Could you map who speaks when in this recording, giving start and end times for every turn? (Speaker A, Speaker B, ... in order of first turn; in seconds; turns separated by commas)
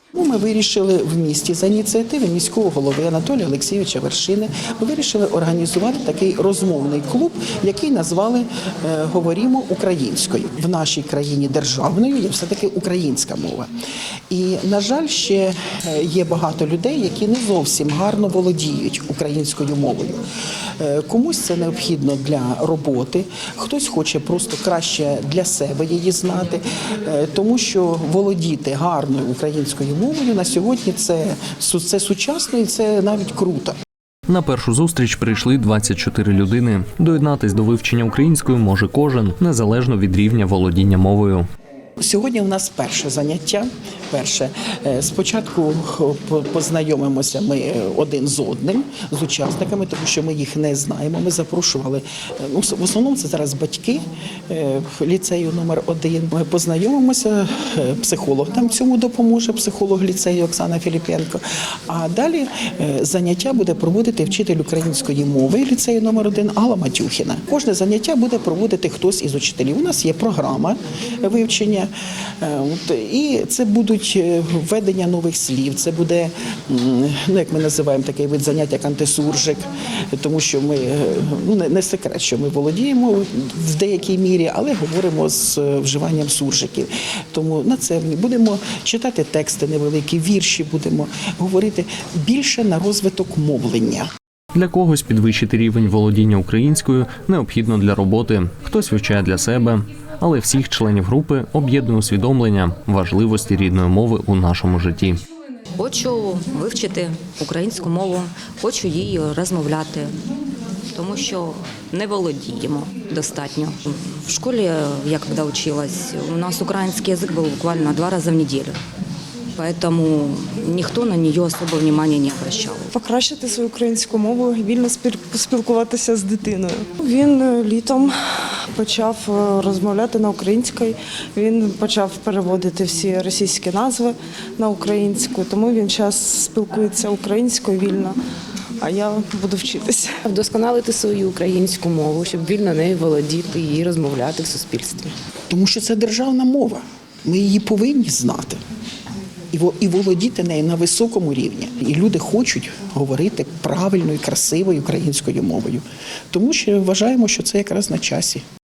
Speaker A: 0.1-13.7, Speaker A: 14.3-20.2, Speaker A: 20.8-33.8, Speaker B: 34.3-41.4, Speaker A: 42.0-94.1, Speaker B: 94.5-105.2, Speaker C: 105.8-110.1, Speaker C: 110.9-118.8, Speaker C: 119.5-122.9, Speaker D: 122.9-138.1, Speaker D: 138.8-140.2, Speaker E: 140.3-145.1, Speaker A: 145.5-148.6, Speaker A: 149.5-158.4